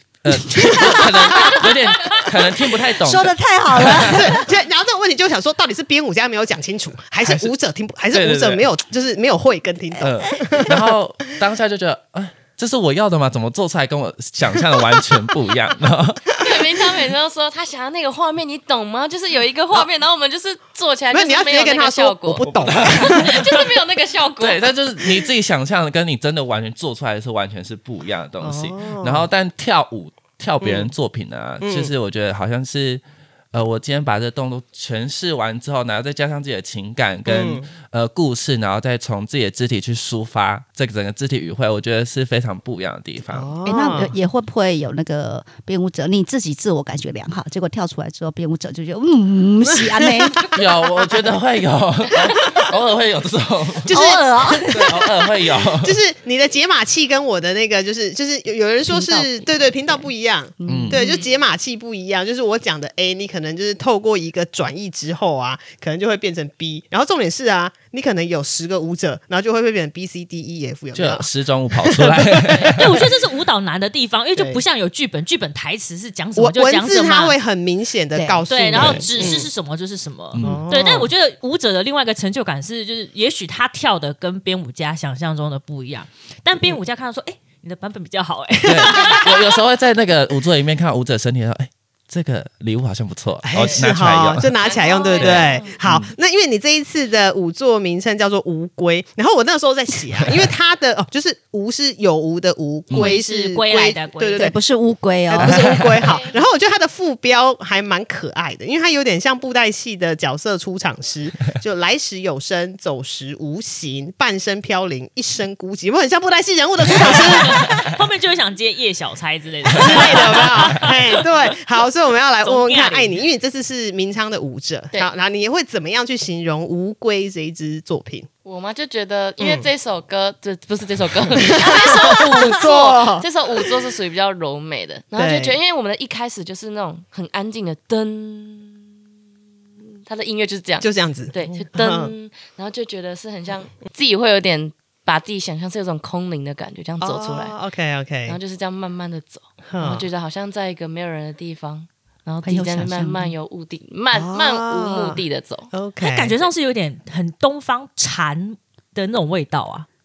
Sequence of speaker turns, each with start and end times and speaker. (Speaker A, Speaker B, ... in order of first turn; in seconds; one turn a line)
Speaker A: 0.2-4.2
Speaker B: 0.5-1.6
Speaker C: 3.0-4.5
Speaker B: 4.0-10.9
Speaker A: 7.2-7.5
Speaker A: 8.1-8.7
Speaker A: 10.0-16.4
Speaker D: 16.3-24.8
Speaker B: 21.1-23.4
Speaker A: 22.4-23.7
Speaker A: 24.4-43.6
Speaker B: 28.4-29.3
Speaker B: 30.6-30.9
Speaker B: 31.6-31.9
Speaker B: 37.3-37.7
Speaker B: 43.3-44.1
Speaker C: 43.6-50.5
Speaker B: 50.0-50.5
Speaker A: 50.5-54.0
Speaker B: 53.8-54.8
Speaker C: 53.9-55.2
Speaker A: 54.7-56.0
Speaker B: 55.8-72.8
Speaker C: 58.9-61.0
Speaker A: 60.7-61.0
Speaker A: 70.9-73.0
Speaker E: 72.7-77.4
Speaker B: 74.3-74.6
Speaker B: 76.4-79.5
Speaker C: 78.2-79.0
Speaker E: 78.5-89.6
Speaker A: 80.3-80.7
Speaker B: 80.4-81.1
Speaker A: 88.6-94.6
Speaker B: 93.4-104.6
Speaker D: 93.6-93.9
Speaker D: 94.6-95.8
Speaker A: 95.2-96.1
Speaker A: 102.9-103.2
Speaker E: 102.9-104.5
Speaker C: 104.4-105.8
Speaker B: 105.3-117.7
Speaker A: 105.5-105.9
Speaker D: 106.0-106.4
Speaker E: 117.0-121.2
Speaker B: 119.7-128.3
Speaker E: 122.5-123.1
Speaker D: 128.4-138.8
Speaker B: 129.4-129.7
Speaker B: 131.4-133.7
Speaker B: 135.2-135.6
Speaker D: 140.1-147.6
Speaker B: 140.8-142.1
Speaker B: 147.0-148.4
Speaker D: 148.3-155.7
Speaker B: 149.7-150.1
Speaker C: 152.4-153.3
Speaker B: 154.1-155.2
Speaker B: 155.7-156.4
Speaker E: 156.0-159.9